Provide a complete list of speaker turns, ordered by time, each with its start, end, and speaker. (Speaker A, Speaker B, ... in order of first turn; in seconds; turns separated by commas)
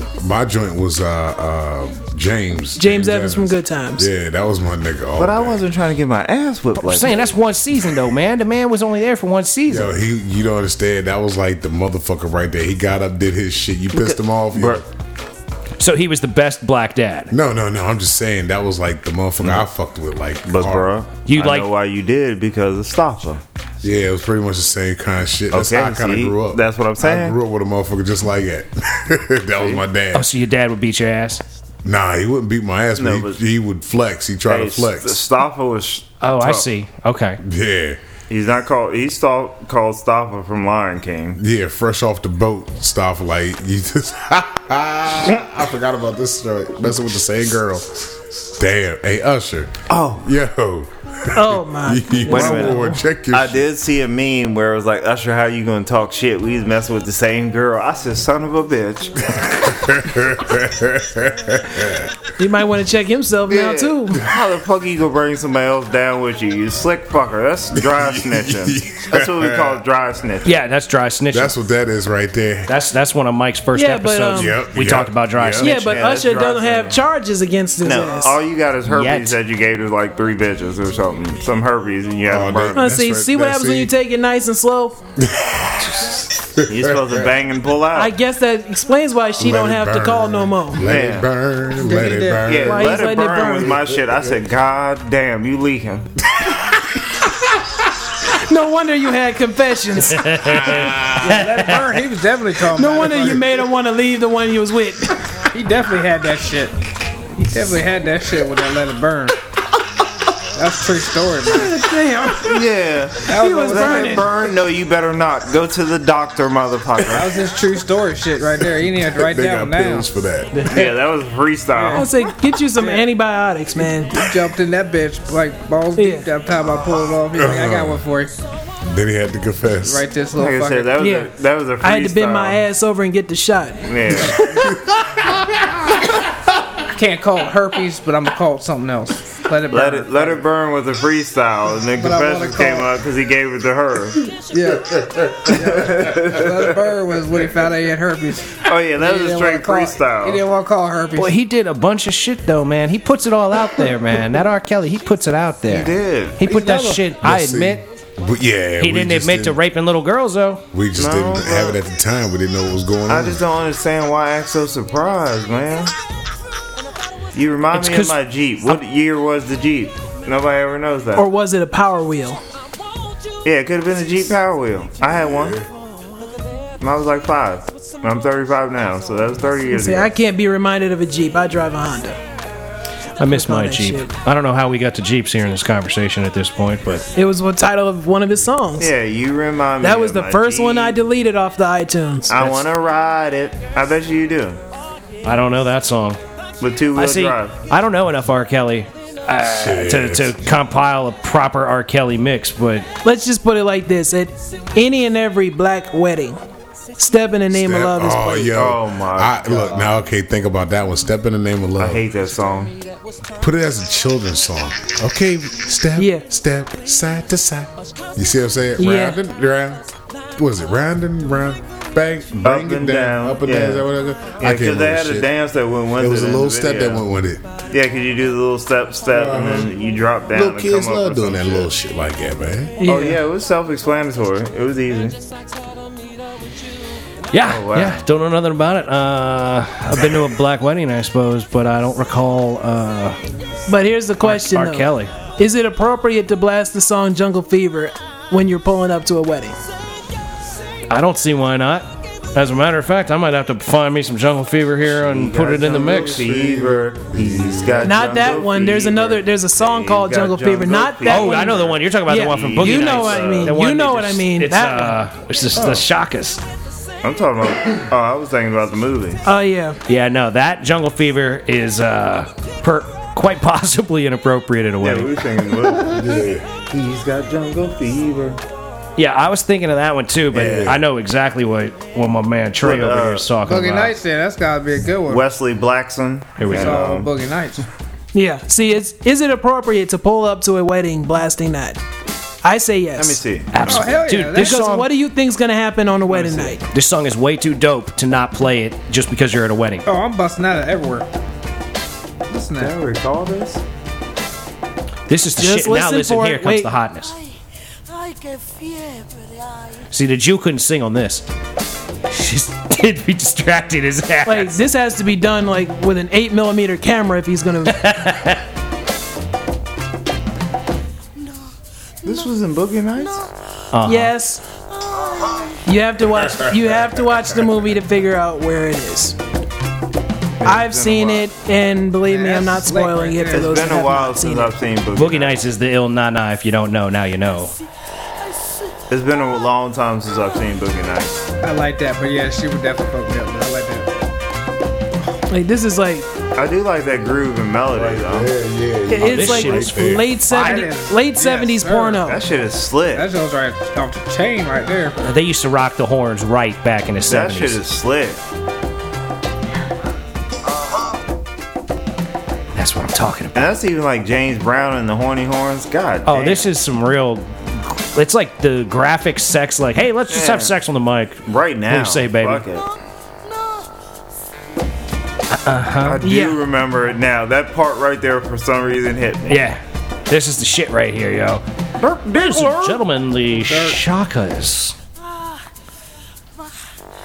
Speaker A: 0.2-5.6, Speaker B: 2.8-4.1, Speaker C: 5.2-7.2, Speaker D: 6.8-9.9, Speaker A: 9.7-14.9, Speaker C: 13.9-14.8, Speaker D: 15.8-17.3, Speaker A: 17.3-20.9, Speaker C: 20.5-23.4, Speaker D: 21.3-21.7, Speaker A: 23.8-30.3, Speaker C: 25.5-27.4, Speaker D: 30.1-31.4, Speaker A: 31.8-35.2, Speaker C: 33.0-33.4, Speaker C: 34.5-36.7, Speaker D: 36.2-37.4, Speaker A: 37.4-38.0, Speaker C: 38.3-41.4, Speaker A: 41.4-53.7, Speaker C: 49.9-50.3, Speaker B: 51.3-53.0, Speaker C: 52.3-59.3, Speaker A: 59.3-62.2, Speaker B: 62.4-64.2, Speaker C: 63.5-70.5, Speaker A: 67.8-69.8, Speaker D: 70.5-71.5, Speaker A: 71.3-72.7, Speaker D: 72.7-75.9, Speaker B: 73.7-74.6, Speaker A: 74.3-75.7, Speaker B: 75.6-78.4, Speaker C: 75.7-77.0, Speaker C: 77.8-82.9, Speaker D: 78.9-79.4, Speaker A: 82.3-83.9, Speaker B: 82.8-85.0, Speaker A: 85.2-87.3, Speaker C: 86.7-88.2, Speaker B: 88.0-90.8, Speaker A: 89.4-94.3, Speaker C: 90.8-91.3, Speaker E: 91.8-92.6, Speaker C: 92.4-96.1, Speaker B: 92.6-93.8, Speaker A: 96.3-96.7, Speaker B: 98.3-100.7, Speaker D: 100.1-101.9, Speaker A: 100.5-101.3, Speaker E: 101.2-103.5, Speaker B: 102.7-105.2, Speaker E: 105.5-106.8, Speaker E: 107.4-109.4, Speaker E: 110.5-111.8, Speaker B: 111.5-112.6, Speaker C: 112.5-117.3, Speaker E: 113.3-114.3, Speaker B: 113.3-114.3, Speaker E: 117.1-120.1, Speaker A: 119.1-120.7, Speaker C: 120.7-122.1, Speaker E: 121.7-122.1, Speaker B: 121.9-124.3, Speaker E: 122.8-123.1, Speaker E: 124.1-128.3, Speaker B: 126.0-126.3, Speaker A: 127.4-128.1, Speaker A: 128.8-130.1, Speaker E: 129.9-131.0, Speaker C: 130.4-132.6, Speaker B: 131.0-134.8, Speaker C: 133.8-134.4, Speaker A: 134.3-135.8, Speaker E: 136.9-140.4, Speaker C: 139.7-144.3, Speaker E: 142.0-142.9, Speaker E: 144.5-151.4, Speaker A: 144.9-145.7, Speaker C: 145.5-146.7, Speaker C: 148.6-150.4, Speaker D: 151.2-157.9, Speaker C: 155.7-156.4, Speaker E: 156.4-157.1, Speaker A: 157.2-159.6, Speaker D: 158.8-160.6, Speaker A: 160.7-163.4, Speaker C: 161.0-161.8, Speaker C: 163.1-165.9, Speaker C: 167.3-171.3, Speaker D: 167.7-168.8, Speaker B: 171.2-172.4, Speaker C: 173.4-175.6, Speaker A: 175.1-175.7, Speaker C: 176.8-180.1, Speaker B: 179.7-182.2, Speaker D: 183.2-187.1, Speaker B: 183.3-184.1, Speaker B: 187.2-188.9, Speaker C: 188.8-191.0, Speaker B: 189.8-192.3, Speaker C: 192.3-194.6, Speaker D: 192.3-192.6, Speaker D: 195.2-196.2, Speaker C: 196.6-197.6, Speaker D: 196.9-202.9, Speaker A: 199.5-200.4, Speaker B: 203.0-206.4, Speaker B: 207.0-208.6, Speaker A: 207.5-212.1, Speaker C: 208.5-209.9, Speaker C: 211.8-212.8, Speaker A: 213.4-225.3, Speaker B: 216.0-216.2, Speaker B: 218.8-219.2, Speaker C: 222.4-223.9, Speaker C: 224.4-227.1, Speaker A: 226.0-227.4, Speaker C: 227.7-231.7, Speaker A: 229.1-229.7, Speaker A: 230.3-232.8, Speaker B: 232.8-233.2, Speaker C: 232.8-235.2, Speaker D: 237.3-243.2, Speaker C: 237.4-238.0, Speaker B: 243.7-249.6, Speaker D: 244.2-245.1, Speaker D: 250.9-256.3, Speaker C: 254.9-263.6, Speaker A: 255.9-258.1, Speaker B: 257.8-265.0, Speaker D: 261.1-266.4, Speaker C: 265.6-265.8, Speaker C: 267.0-269.2, Speaker B: 269.2-269.8, Speaker D: 269.9-275.1, Speaker C: 274.8-278.4, Speaker A: 275.8-276.5, Speaker D: 279.0-284.0, Speaker A: 280.3-280.8, Speaker C: 280.3-280.7, Speaker C: 282.6-283.3, Speaker E: 283.4-285.2, Speaker C: 285.1-287.1, Speaker D: 286.4-286.9, Speaker E: 286.5-287.6, Speaker B: 288.1-291.8, Speaker B: 292.4-293.2, Speaker C: 293.0-293.6, Speaker D: 293.5-294.9, Speaker E: 293.6-294.6, Speaker B: 294.3-296.6, Speaker E: 296.1-296.5, Speaker D: 296.7-299.9, Speaker E: 299.9-301.1, Speaker E: 302.3-302.7, Speaker C: 302.5-303.6, Speaker D: 305.1-307.1, Speaker B: 305.4-306.7, Speaker D: 309.9-311.2, Speaker D: 312.1-314.6, Speaker B: 314.3-317.9, Speaker D: 317.7-318.4, Speaker C: 322.0-323.3, Speaker D: 323.7-324.1, Speaker B: 323.9-324.4, Speaker B: 325.7-329.2, Speaker C: 330.4-331.3, Speaker B: 330.4-334.6, Speaker E: 332.0-333.6, Speaker C: 333.3-335.4, Speaker D: 334.9-337.5, Speaker C: 338.9-341.2, Speaker E: 341.4-343.9, Speaker B: 345.3-346.1, Speaker C: 346.4-348.3, Speaker A: 347.7-350.2, Speaker B: 348.9-352.2, Speaker D: 349.0-350.6, Speaker E: 350.3-352.0, Speaker C: 352.0-353.1, Speaker E: 352.9-355.0, Speaker D: 355.0-357.6, Speaker C: 357.1-358.2, Speaker D: 362.6-363.5, Speaker C: 363.4-366.5, Speaker D: 366.1-372.4, Speaker C: 370.1-370.6, Speaker C: 371.3-372.7, Speaker D: 375.3-376.0, Speaker C: 375.8-379.5, Speaker B: 376.0-376.4, Speaker D: 379.3-381.4, Speaker C: 381.8-382.8, Speaker D: 382.1-384.8, Speaker E: 383.5-383.8